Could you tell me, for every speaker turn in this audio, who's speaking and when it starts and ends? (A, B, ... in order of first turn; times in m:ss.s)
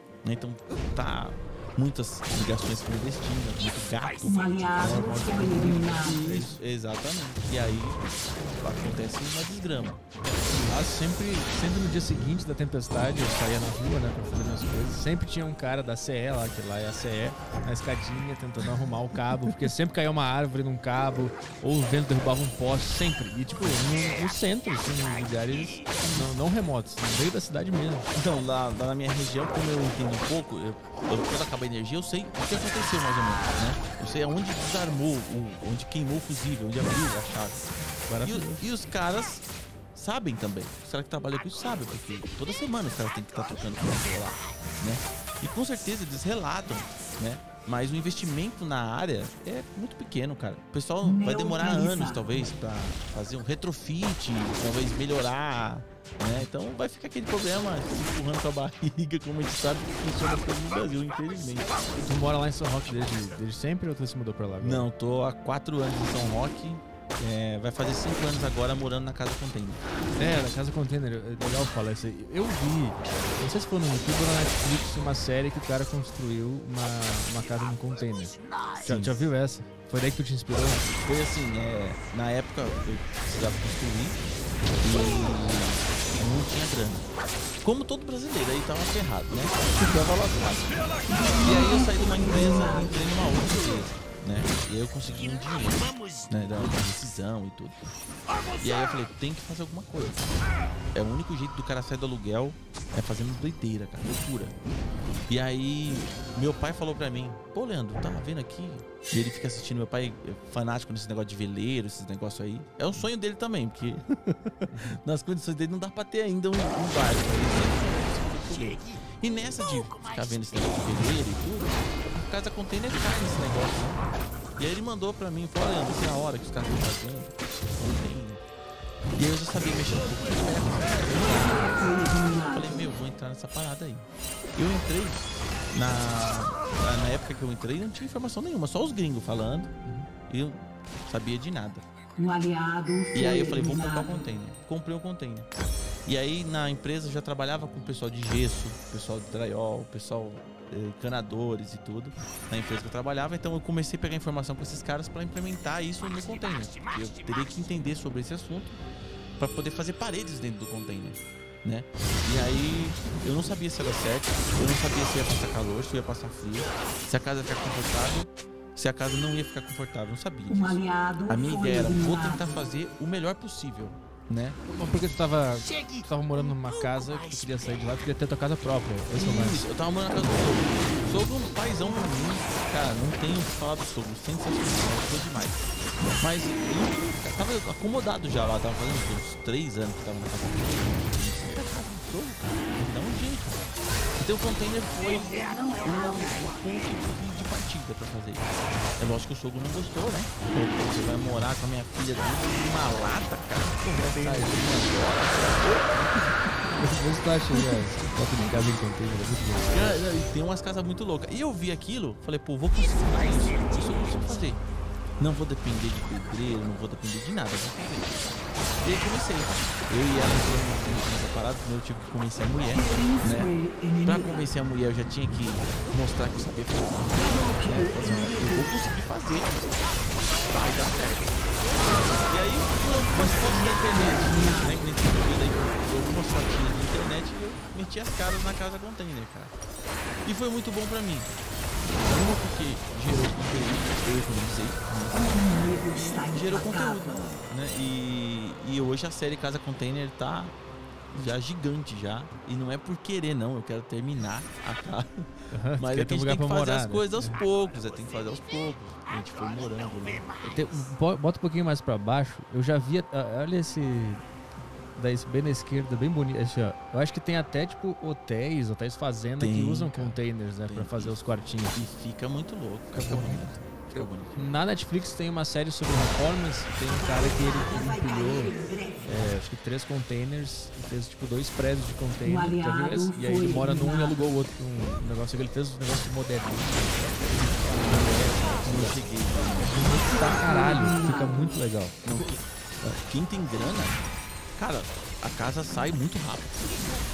0:00.2-0:10.1 A
0:04.2-0:06.3 B
0:04.8-0:06.6 C
0:10.2-0:28.1 C
0:26.0-0:26.3 A
0:28.1-0:37.7 A
0:38.1-0:38.7 C
0:38.2-1:01.8 A
0:51.0-0:52.3 B
1:02.0-1:04.9 C
1:04.6-1:09.8 A
1:10.2-1:20.9 C
1:18.8-1:19.2 A
1:21.0-1:24.2 A
1:24.8-1:27.1 A
1:27.6-1:37.8 A
1:31.1-1:32.9 B
1:38.6-1:40.3 A
1:40.9-1:44.6 A
1:45.3-2:04.0 A
1:54.7-1:55.0 C
2:04.6-2:08.4 A
2:09.2-2:19.7 A
2:11.2-2:12.8 B
2:20.3-2:21.8 A
2:22.2-2:24.2 B
2:23.1-2:25.5 A
2:26.0-2:38.8 A
2:39.4-2:54.6 A
2:50.5-2:52.5 B
2:54.7-2:59.6 C
2:59.1-3:13.6 A
3:14.2-3:26.7 A
3:15.6-3:16.3 B
3:24.0-3:24.9 C
3:26.6-3:30.0 C
3:29.7-3:34.6 A
3:35.2-3:49.8 A
3:42.7-3:44.4 B
3:47.1-3:48.8 B
3:50.4-3:59.5 A
3:53.2-3:54.8 B
4:00.2-4:01.3 A
4:01.9-4:10.5 A
4:05.1-4:07.3 B
4:11.1-4:20.6 A
4:15.5-4:17.4 C
4:20.5-4:24.2 C
4:24.9-4:31.8 C
4:29.4-4:31.2 A
4:31.7-4:34.6 A
4:32.9-4:33.5 C
4:34.4-4:49.0 C
4:36.9-4:39.1 B
4:42.2-4:44.2 B
4:47.8-4:50.4 A
4:49.7-4:52.3 C
4:50.0-4:51.6 B
4:52.0-4:54.0 A
4:54.6-4:56.7 A